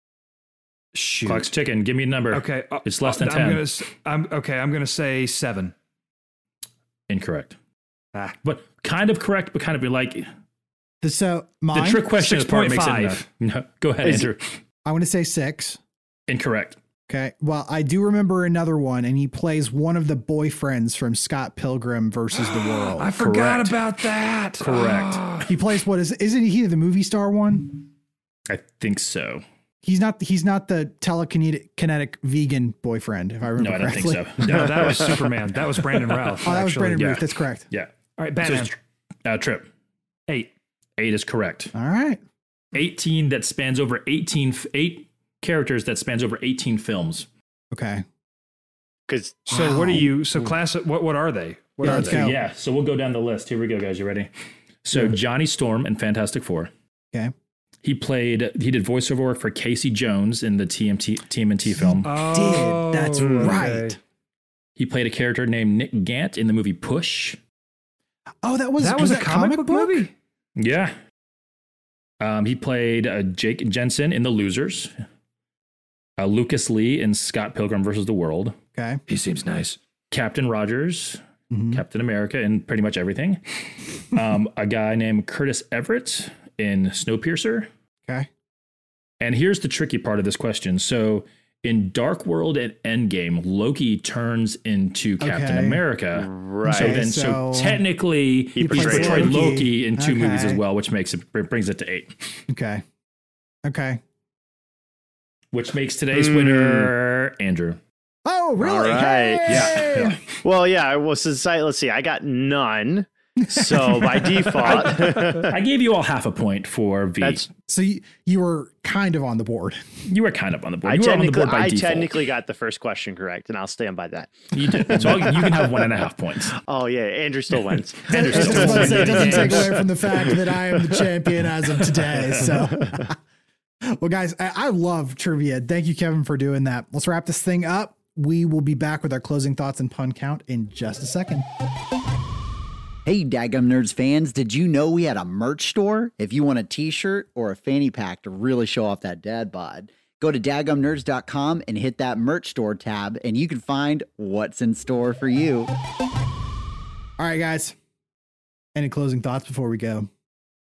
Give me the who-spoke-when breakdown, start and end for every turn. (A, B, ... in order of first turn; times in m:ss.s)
0:00.9-0:01.5 A
0:01.2-0:03.7 B
0:02.3-0:05.7 A
0:07.1-0:07.6 B
0:08.4-0:10.3 B
0:11.0-0:12.1 C
0:11.7-0:14.6 B
0:12.2-0:13.2 A
0:14.8-0:15.8 C
0:16.3-0:16.8 B
0:17.1-0:23.1 C
0:22.4-0:25.5 A
0:23.2-0:23.8 B
0:24.6-0:25.2 B
0:25.4-0:27.8 C
0:28.5-0:29.4 B
0:29.8-0:34.3 C
0:33.6-0:35.3 B
0:34.4-0:37.1 A
0:36.1-0:36.4 B
0:36.4-0:37.7 C
0:37.0-0:39.7 B
0:38.2-0:38.8 A
0:41.0-0:41.7 B
0:41.7-0:42.2 C
0:42.7-0:47.3 B
0:47.7-0:48.0 C
0:49.1-0:49.4 D
0:49.5-0:52.3 A
0:49.5-0:50.1 C
0:51.8-0:52.4 C
0:51.8-0:54.3 B
0:54.8-0:56.7 B
0:57.8-1:02.2 B
1:01.7-1:04.0 C
1:02.0-1:04.0 A
1:03.3-1:03.6 B
1:04.8-1:07.4 B
1:08.4-1:10.1 C
1:08.8-1:10.1 A
1:10.6-1:10.9 B
1:12.2-1:14.9 B
1:16.2-1:18.6 B
1:18.8-1:19.0 C
1:19.1-1:19.8 A
1:20.1-1:27.7 B
1:21.5-1:21.8 C
1:29.2-1:42.4 B
1:35.2-1:35.8 C
1:36.1-1:37.0 D
1:36.6-1:37.8 C
1:38.6-1:39.4 D
1:38.6-1:40.6 C
1:42.5-1:42.8 C
1:43.6-1:44.0 C
1:45.5-1:47.8 B
1:46.1-1:46.9 D
1:48.3-1:50.2 C
1:48.6-1:55.6 D
1:49.5-1:50.2 B
1:53.4-1:54.5 C
1:54.6-1:57.4 B
1:57.2-1:57.5 D
1:57.7-1:59.9 C
2:00.1-2:02.2 B
2:00.8-2:05.7 D
2:04.5-2:06.6 B
2:06.6-2:11.0 D
2:08.0-2:09.8 B
2:08.1-2:13.2 C
2:13.8-2:21.4 C
2:23.1-2:35.7 E
2:37.2-2:37.8 C
2:38.8-2:40.1 C